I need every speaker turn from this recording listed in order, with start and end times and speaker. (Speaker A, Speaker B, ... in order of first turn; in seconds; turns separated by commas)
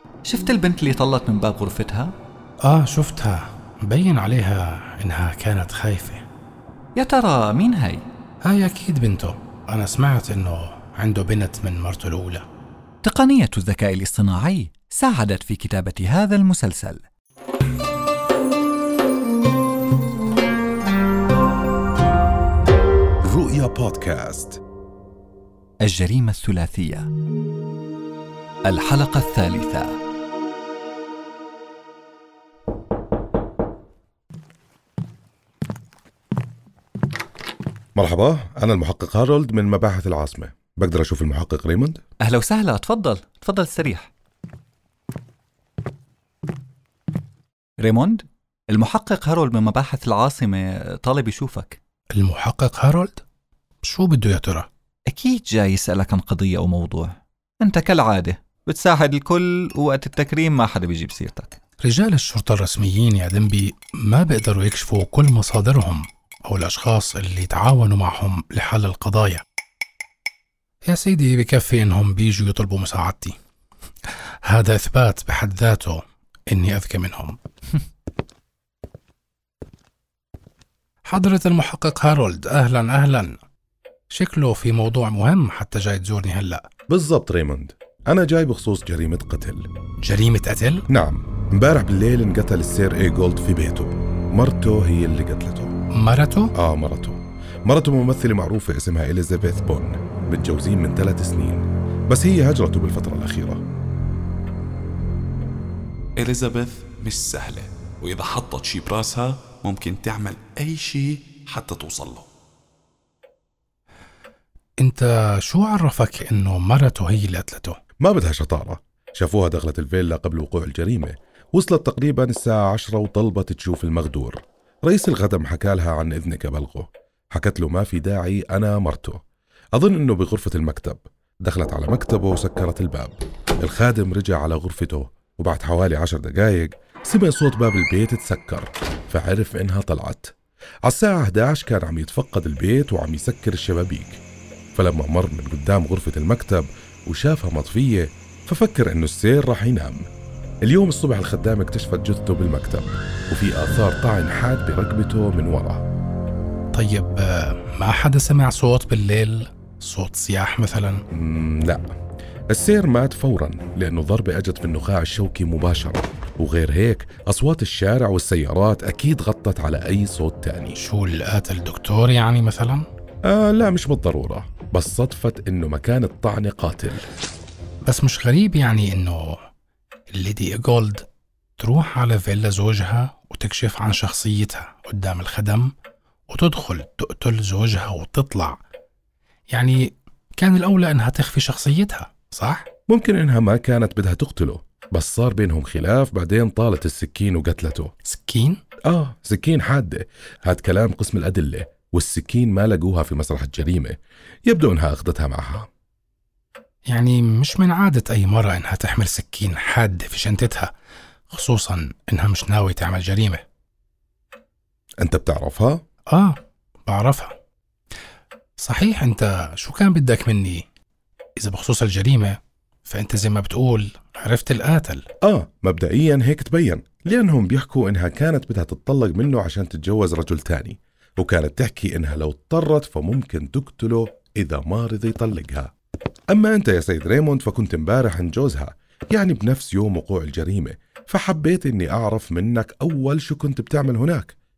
Speaker A: 0.3-2.1, Speaker B: 2.6-6.2, Speaker A: 7.0-8.0, Speaker B: 8.4-12.4, Speaker A: 13.0-17.0, Speaker C: 23.2-24.6, Speaker A: 25.9-27.1, Speaker A: 28.6-30.0, Speaker C: 38.0-42.0, Speaker A: 42.2-44.1, Speaker A: 47.8-51.8, Speaker B: 52.1-53.2, Speaker B: 53.8-54.7, Speaker A: 55.1-61.6, Speaker B: 61.8-69.4, Speaker B: 70.8-73.4, Speaker B: 74.4-77.4, Speaker B: 81.0-83.4, Speaker B: 84.1-86.7, Speaker C: 86.9-89.7, Speaker B: 90.0-90.9, Speaker C: 90.9-95.7, Speaker B: 96.0-96.5, Speaker C: 96.6-103.6, Speaker D: 106.2-112.3, Speaker B: 114.8-117.8, Speaker C: 118.0-129.2, Speaker C: 129.8-140.3, Speaker C: 140.8-144.2, Speaker C: 144.7-150.1, Speaker C: 150.6-155.8, Speaker B: 156.7-161.0, Speaker C: 161.1-161.8, Speaker C: 162.5-170.8, Speaker B: 170.8-172.9, Speaker C: 173.2-177.1, Speaker B: 177.8-179.4, Speaker B: 180.1-181.1, Speaker B: 181.6-185.7, Speaker B: 186.3-188.6, Speaker B: 189.5-192.7, Speaker C: 192.9-197.9, Speaker B: 198.1-198.6, Speaker C: 198.9-205.7, Speaker B: 206.9-210.7, Speaker B: 211.3-213.4, Speaker C: 215.0-215.8, Speaker B: 216.1-217.3, Speaker B: 218.6-220.7, Speaker B: 221.4-225.1, Speaker C: 225.2-235.7, Speaker C: 236.3-244.3